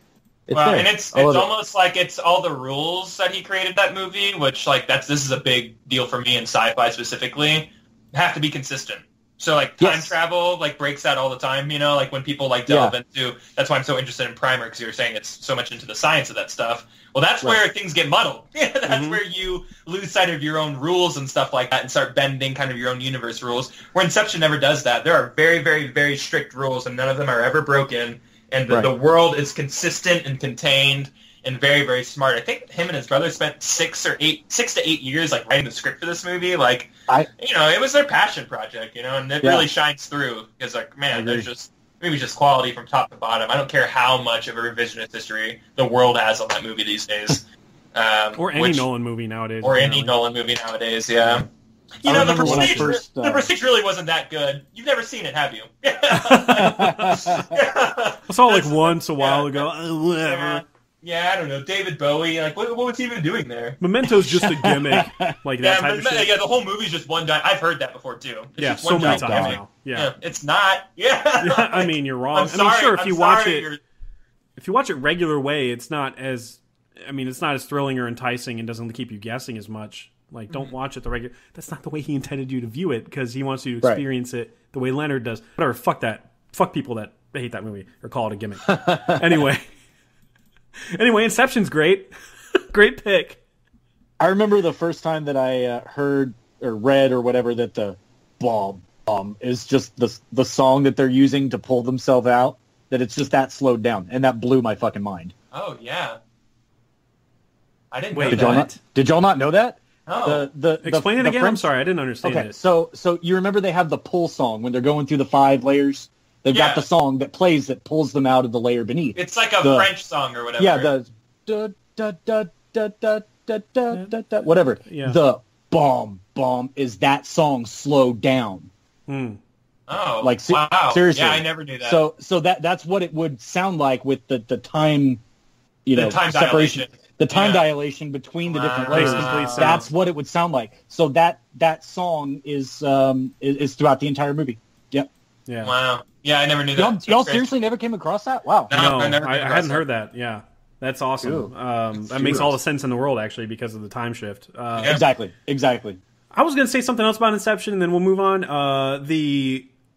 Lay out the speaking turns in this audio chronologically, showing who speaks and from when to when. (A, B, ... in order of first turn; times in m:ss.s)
0:00.5-0:01.5 A
0:00.5-0:47.4 B
0:09.8-0:10.2 A
0:12.7-0:12.9 A
0:18.9-0:19.2 C
0:39.4-0:39.7 A
0:41.1-0:41.4 A
0:47.9-0:48.8 B
0:48.4-0:50.1 C
0:49.6-0:51.4 B
0:52.0-0:59.6 B
0:52.0-0:53.5 A
0:52.1-0:52.9 C
0:56.1-0:57.4 C
0:56.6-0:57.5 A
0:58.3-1:00.6 C
1:00.2-1:03.8 B
1:03.8-1:06.3 C
1:04.1-1:05.3 A
1:05.6-1:13.8 B
1:08.6-1:10.1 C
1:09.0-1:09.6 A
1:11.4-1:13.7 C
1:14.6-1:29.7 C
1:28.7-1:29.2 A
1:30.9-1:32.1 C
1:32.7-1:33.4 C
1:34.2-1:45.3 A
1:45.5-1:46.2 B
1:47.9-1:48.7 B
1:48.1-1:48.8 C
1:48.3-1:51.7 A
1:50.1-1:50.5 B
1:50.8-1:52.5 C
1:52.2-1:59.9 A
1:56.5-1:56.8 B
1:59.1-2:00.9 B
2:00.6-2:08.7 A
2:04.8-2:05.2 C
2:09.1-2:09.4 C
2:09.9-2:12.0 B
2:10.2-2:15.2 A
2:15.8-2:25.1 A
2:15.9-2:17.7 B
2:18.5-2:19.8 B
2:18.9-2:19.9 C
2:25.5-2:25.7 C
2:25.6-2:27.5 B
2:26.7-2:28.7 A
2:28.7-2:29.8 B
2:28.7-2:35.0 C
2:31.2-2:31.5 A
2:32.0-2:32.5 A
2:34.8-2:36.0 A
2:36.3-2:39.7 C